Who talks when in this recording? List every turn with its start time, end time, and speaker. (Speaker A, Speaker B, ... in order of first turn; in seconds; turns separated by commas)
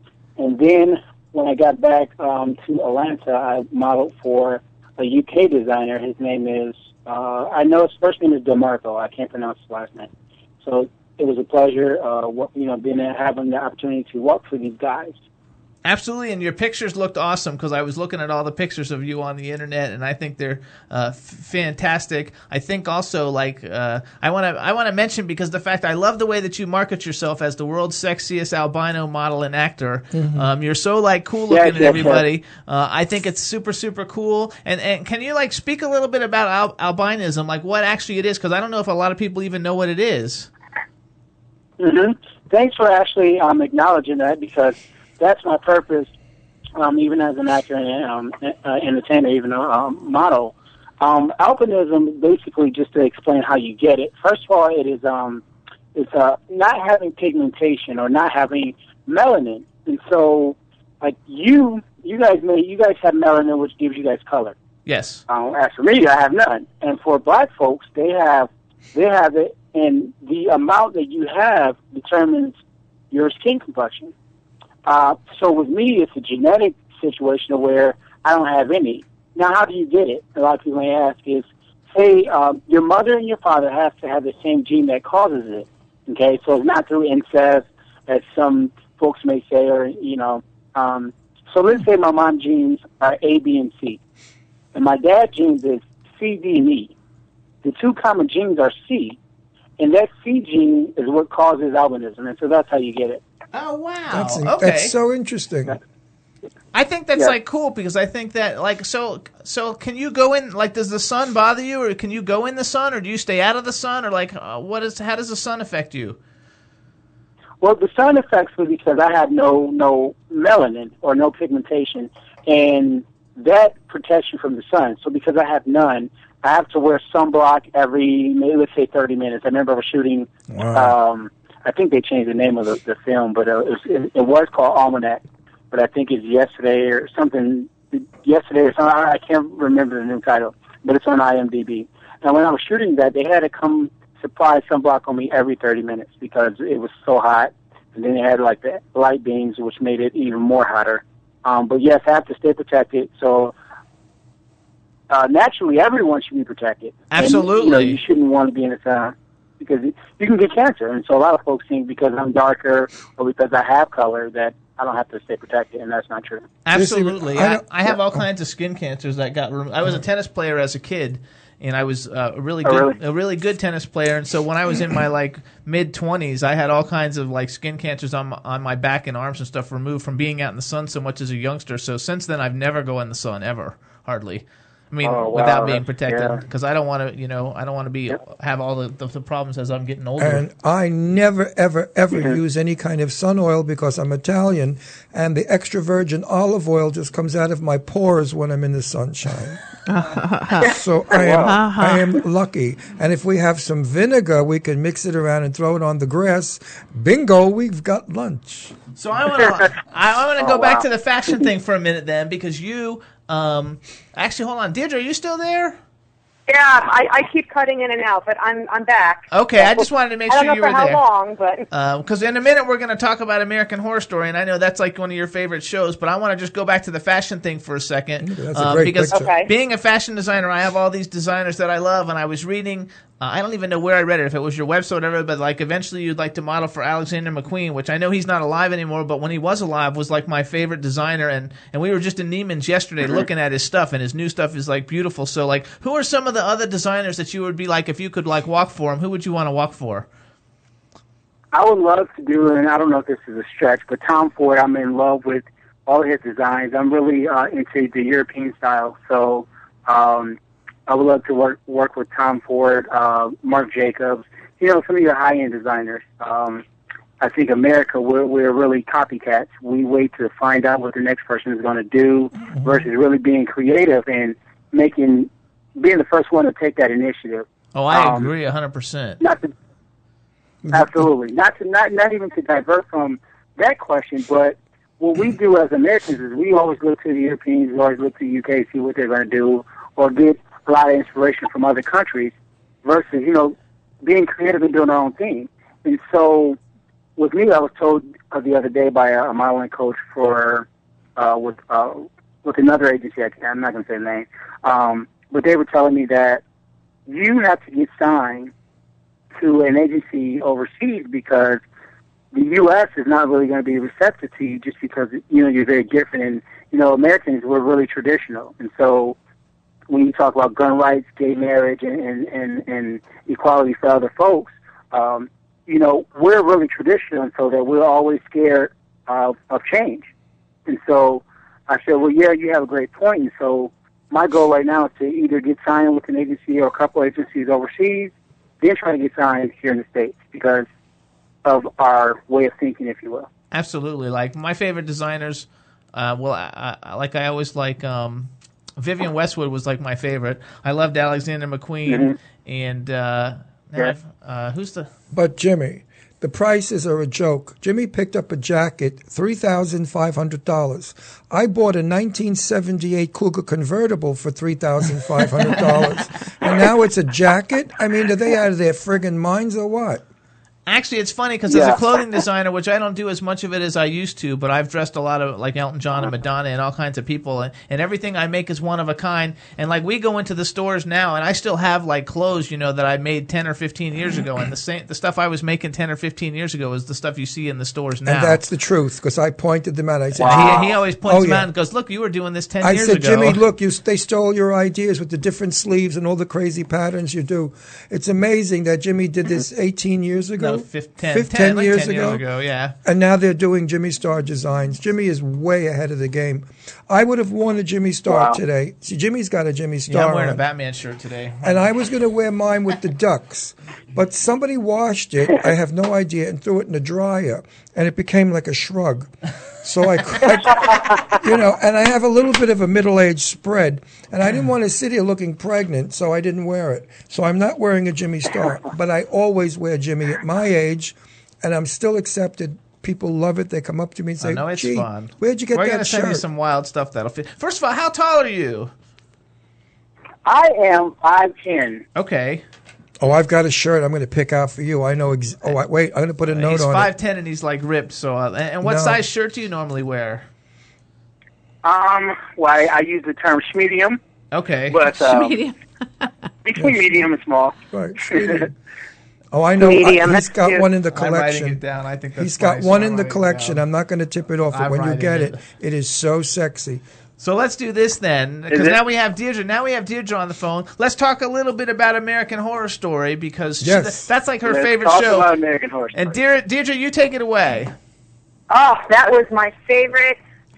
Speaker A: 0.4-10.1, Speaker A: 10.6-15.1, Speaker B: 15.8-40.5, Speaker C: 30.1-30.5, Speaker A: 31.5-32.2, Speaker A: 41.8-46.1, Speaker A: 46.8-55.4, Speaker A: 55.9-64.5, Speaker B: 64.8-65.2, Speaker A: 65.3-72.5, Speaker A: 73.1-74.1, Speaker A: 74.8-94.0, Speaker A: 94.7-96.9, Speaker A: 97.6-99.2, Speaker A: 99.8-103.2, Speaker B: 103.5-104.9, Speaker C: 104.1-105.8, Speaker B: 106.7-116.2, Speaker A: 117.6-153.5, Speaker C: 130.5-130.9, Speaker A: 155.1-166.5, Speaker B: 157.1-158.0, Speaker B: 166.6-190.4, Speaker C: 166.7-168.2, Speaker A: 172.6-173.0, Speaker A: 185.0-186.4, Speaker C: 190.2-199.6, Speaker D: 199.9-200.7, Speaker A: 200.6-201.5, Speaker C: 200.7-208.7, Speaker D: 201.4-202.2, Speaker B: 209.0-215.8, Speaker A: 209.4-209.7, Speaker A: 210.4-211.5, Speaker E: 216.5-221.7, Speaker B: 219.3-221.0, Speaker B: 221.7-250.1, Speaker C: 228.2-229.2, Speaker E: 229.1-229.5, Speaker A: 251.5-266.6, Speaker A: 267.2-278.3, Speaker B: 277.7-279.2, Speaker A: 279.2-279.5, Speaker C: 280.6-281.1, Speaker A: 280.7-292.3, Speaker A: 292.8-296.6, Speaker A: 297.2-306.4, Speaker A: 307.1-308.5, Speaker A: 309.4-311.6, Speaker A: 312.3-319.1, Speaker A: 319.9-330.1, Speaker A: 330.6-340.7, Speaker A: 341.4-343.3, Speaker B: 343.5-354.9, Speaker A: 351.9-352.1, Speaker C: 355.1-370.0, Speaker B: 370.7-388.4, Speaker A: 371.5-371.8, Speaker C: 388.0-391.5, Speaker A: 390.1-390.7, Speaker B: 390.2-393.4, Speaker C: 392.6-402.2, Speaker B: 400.4-402.7, Speaker C: 402.8-410.4, Speaker A: 408.1-408.4, Speaker B: 409.9-411.6, Speaker C: 411.4-419.1, Speaker C: 419.6-436.2, Speaker B: 434.2-438.7, Speaker A: 440.2-441.8, Speaker B: 441.9-442.4, Speaker C: 443.0-446.9, Speaker B: 446.3-450.2, Speaker C: 448.6-449.0, Speaker A: 451.6-454.0, Speaker B: 454.3-454.8, Speaker A: 454.7-455.4, Speaker D: 454.9-456.1, Speaker A: 456.4-458.5, Speaker C: 457.7-458.5, Speaker C: 459.3-461.6, Speaker E: 459.6-460.6, Speaker B: 460.9-463.6, Speaker C: 462.1-466.8, Speaker B: 464.5-465.4, Speaker B: 467.2-475.3, Speaker A: 468.5-468.8, Speaker C: 473.6-474.1, Speaker A: 474.4-476.2, Speaker B: 475.9-477.7, Speaker E: 478.5-480.2